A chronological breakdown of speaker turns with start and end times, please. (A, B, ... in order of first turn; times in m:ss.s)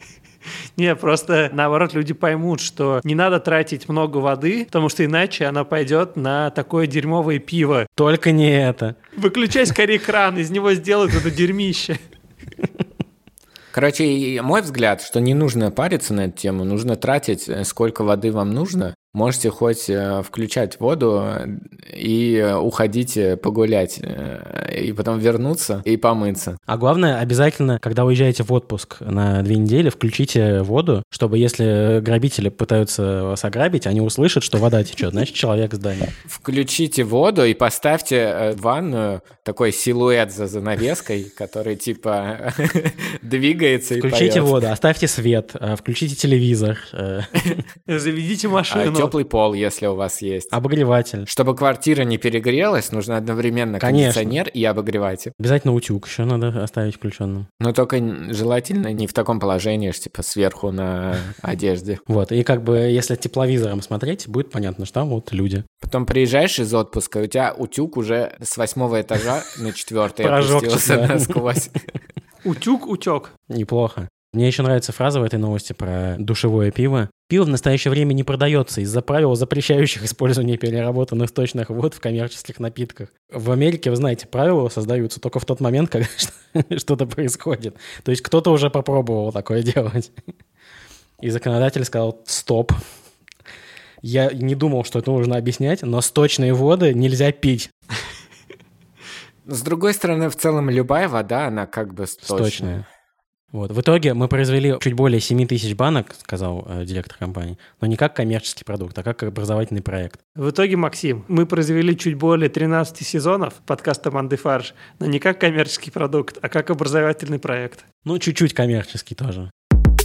0:00.8-0:07.9 A
0:08.0-0:09.0 B
0:09.2-0:12.0 A
0:13.7-0:26.6 C
0:26.7-0:36.1 B
0:36.3-0:44.7 C
0:44.0-0:47.6 B
0:47.9-0:49.1 A
0:48.7-0:50.6 C
0:50.5-0:51.3 B
0:51.3-0:55.3 C
0:53.8-0:54.4 B
0:55.4-0:57.5 B
0:57.6-1:02.0 C
1:02.1-1:05.6 B
1:05.8-1:11.8 C
1:10.2-1:11.4 B
1:12.4-1:13.3 A
1:13.5-1:30.1 B
1:31.2-1:32.8 B
1:34.0-1:37.7 B
1:39.5-1:42.8 C
1:42.2-1:42.8 B
1:43.5-1:50.2 B
1:50.4-1:57.8 A
1:58.0-1:59.5 B